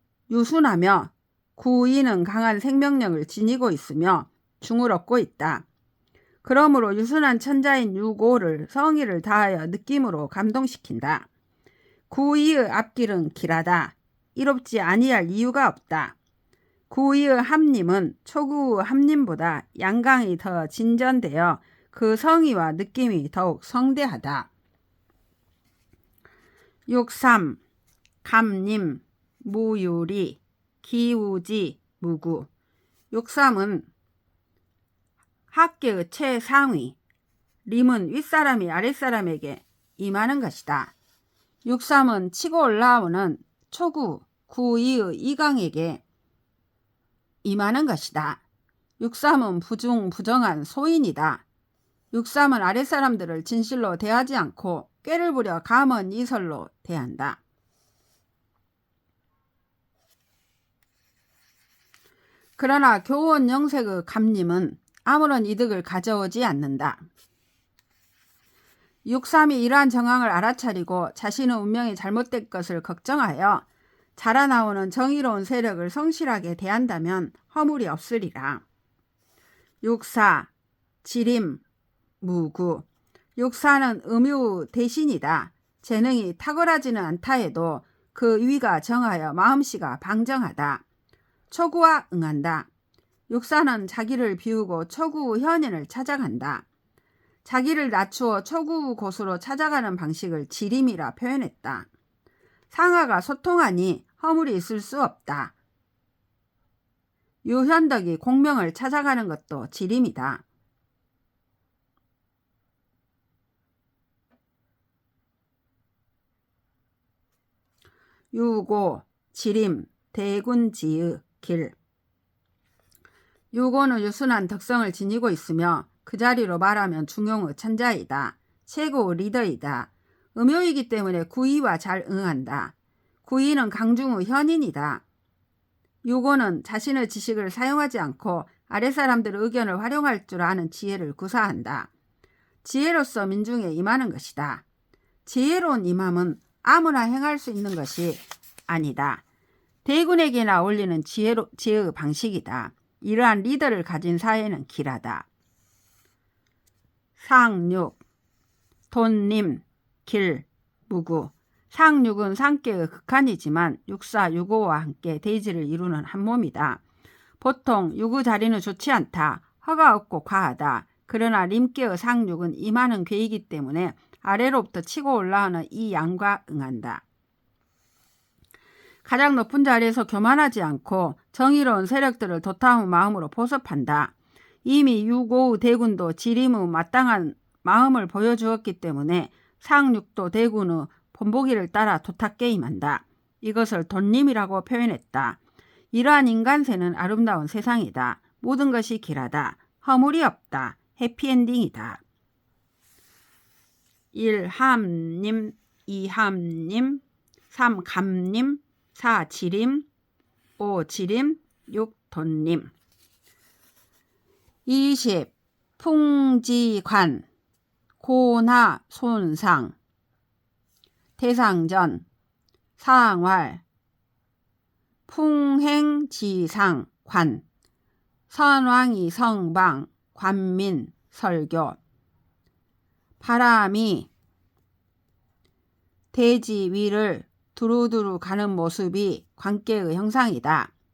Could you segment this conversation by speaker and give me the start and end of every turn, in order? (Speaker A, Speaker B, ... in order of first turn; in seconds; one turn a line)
Speaker A: 0.3-5.6
Speaker A: 6.4-11.3
Speaker A: 12.1-16.1
Speaker A: 16.9-24.5
Speaker A: 26.9-27.6
Speaker A: 28.2-32.5
Speaker A: 33.1-33.9
Speaker A: 35.5-37.0
Speaker A: 37.6-40.9
Speaker A: 41.6-46.0
Speaker A: 47.4-48.4
Speaker A: 49.0-51.4
Speaker A: 52.1-57.4
Speaker A: 62.6-67.0
Speaker A: 69.0-73.6
Speaker A: 74.2-78.6
Speaker A: 79.8-80.5
Speaker A: 81.0-81.6
Speaker A: 82.2-82.8
Speaker A: 83.4-90.8
Speaker A: 91.5-92.7
Speaker A: 93.3-96.6
Speaker A: 97.4-101.9
Speaker A: 102.7-105.5
Speaker A: 107.4-110.4
Speaker A: 118.3-121.7
Speaker A: 123.5-132.7
Speaker A: 133.2-135.0
Speaker A: 136.0-141.9
Speaker A: 142.6-144.6
Speaker A: 145.2-149.2
Speaker A: 149.8-155.3
Speaker A: 157.2-158.0
Speaker A: 158.9-166.8
Speaker A: 167.4-177.0
Speaker A: 179.0-184.1
Speaker A: 184.6-195.4
Speaker A: 195.9-202.0
Speaker A: 204.1-209.8
Speaker A: 210.6-212.7
Speaker A: 214.7-217.2
Speaker A: 218.0-219.7
Speaker A: 221.2-222.0
Speaker A: 222.8-223.6
Speaker A: 225.1-227.4
Speaker A: 228.3-231.8
Speaker A: 233.2-234.1
Speaker A: 236.1-240.7